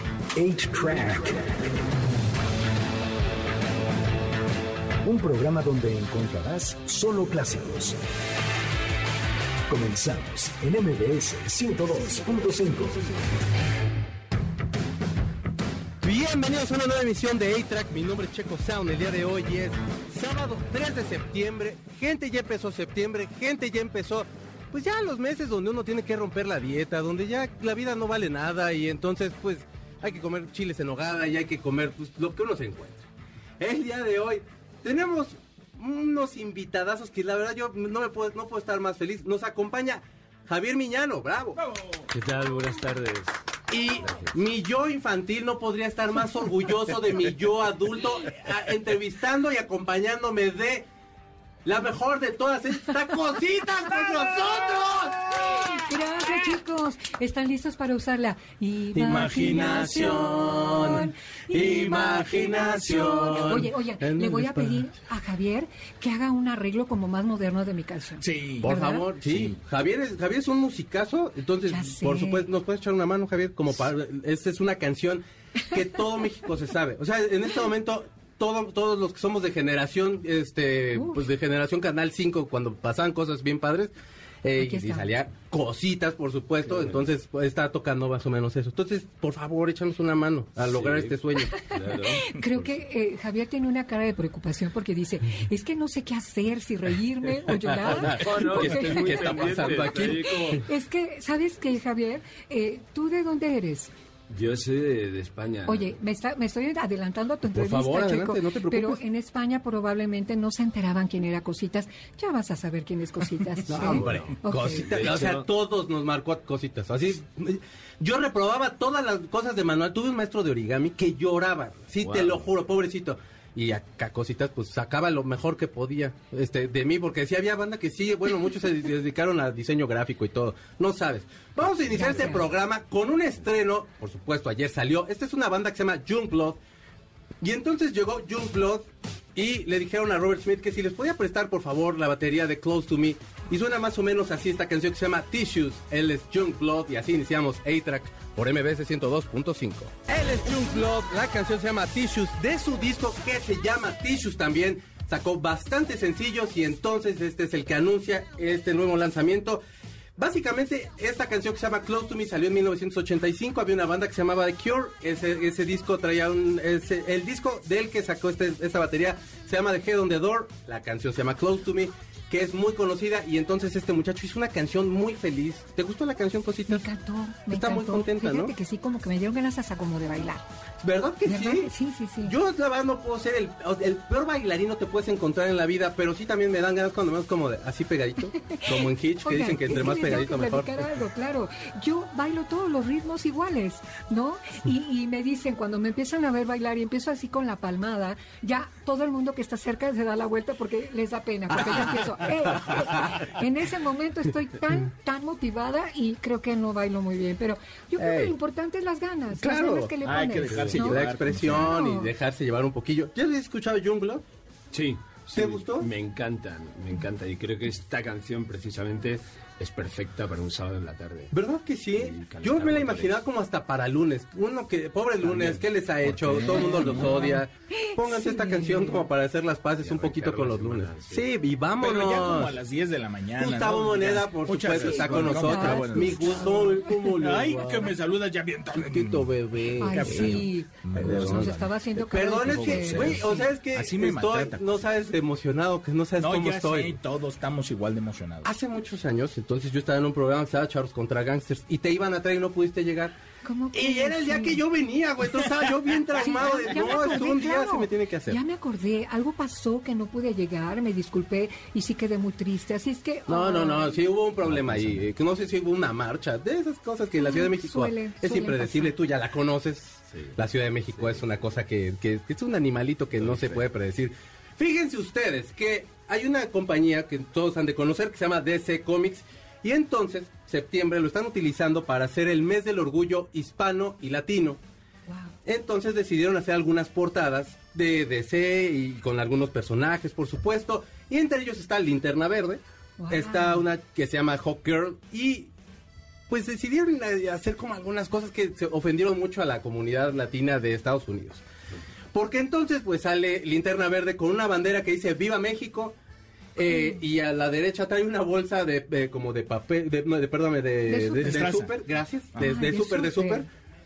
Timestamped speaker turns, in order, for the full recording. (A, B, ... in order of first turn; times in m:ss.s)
0:00.3-0:01.6 A
0:05.0-0:08.0 A
0:09.7-0:13.1 A
0:16.0-0:33.0 B
0:33.6-0:41.6 B
0:42.1-0:43.4 C
0:43.7-0:50.9 B
0:44.0-0:44.3 C
0:51.6-0:55.8 B
0:55.6-1:09.1 D
0:59.0-1:04.9 B
0:59.1-1:00.1 E
1:08.2-1:08.7 E
1:08.6-1:23.9 B
1:09.2-1:09.6 E
1:11.7-1:12.4 D
1:21.0-1:21.2 D
1:24.4-1:31.6 B
1:24.6-1:25.1 D
1:26.7-1:27.0 C
1:30.6-1:32.7 C
1:31.5-1:39.2 D
1:37.8-1:40.7 C
1:37.9-1:40.6 B
1:40.0-1:43.9 D
1:44.3-1:46.0 C
1:45.7-1:54.9 D
1:47.5-1:49.0 B
1:53.6-2:16.6 B
1:53.8-1:55.5 C
2:02.0-2:02.5 C
2:11.9-2:12.5 D
2:17.4-2:39.6 B
2:40.2-2:56.8 B
2:56.7-3:00.4 D
2:57.5-2:58.5 B
3:00.8-3:01.7 B
3:01.3-3:02.3 D
3:02.2-3:10.8 B
3:08.4-3:31.1 D
3:21.6-3:21.9 B
3:22.5-3:23.2 B
3:28.0-3:28.3 B
3:29.4-3:29.9 B
3:30.0-3:31.8 E
3:30.5-3:30.9 C
3:30.8-3:34.2 B
3:31.7-3:32.1 D
3:34.7-3:41.3 C
3:35.3-3:35.9 B
3:41.3-3:52.6 B
3:42.0-3:43.2 C
3:45.2-3:47.1 C
3:46.3-3:47.2 E
3:46.5-3:49.0 D
3:49.8-3:51.2 C
3:51.8-3:56.6 E
3:53.4-3:57.9 B
3:54.9-3:56.8 D
3:57.2-4:01.7 E
3:58.8-4:06.9 B
3:59.8-4:03.5 D
4:02.4-4:04.6 E
4:06.2-4:08.5 E
4:08.4-4:13.1 B
4:13.4-4:14.6 D
4:13.7-4:18.4 B
4:16.2-4:24.0 D
4:23.3-4:44.6 B
4:24.4-4:25.0 C
4:27.2-4:28.9 D
4:33.2-4:33.6 C
4:45.1-4:45.3 D
4:45.4-4:55.5 B
4:53.0-4:53.6 D
4:56.3-5:01.4 B
5:02.1-5:06.0 B
5:06.6-5:13.4 B
5:10.9-5:11.5 D
5:11.2-5:11.8 E
5:12.4-5:13.5 D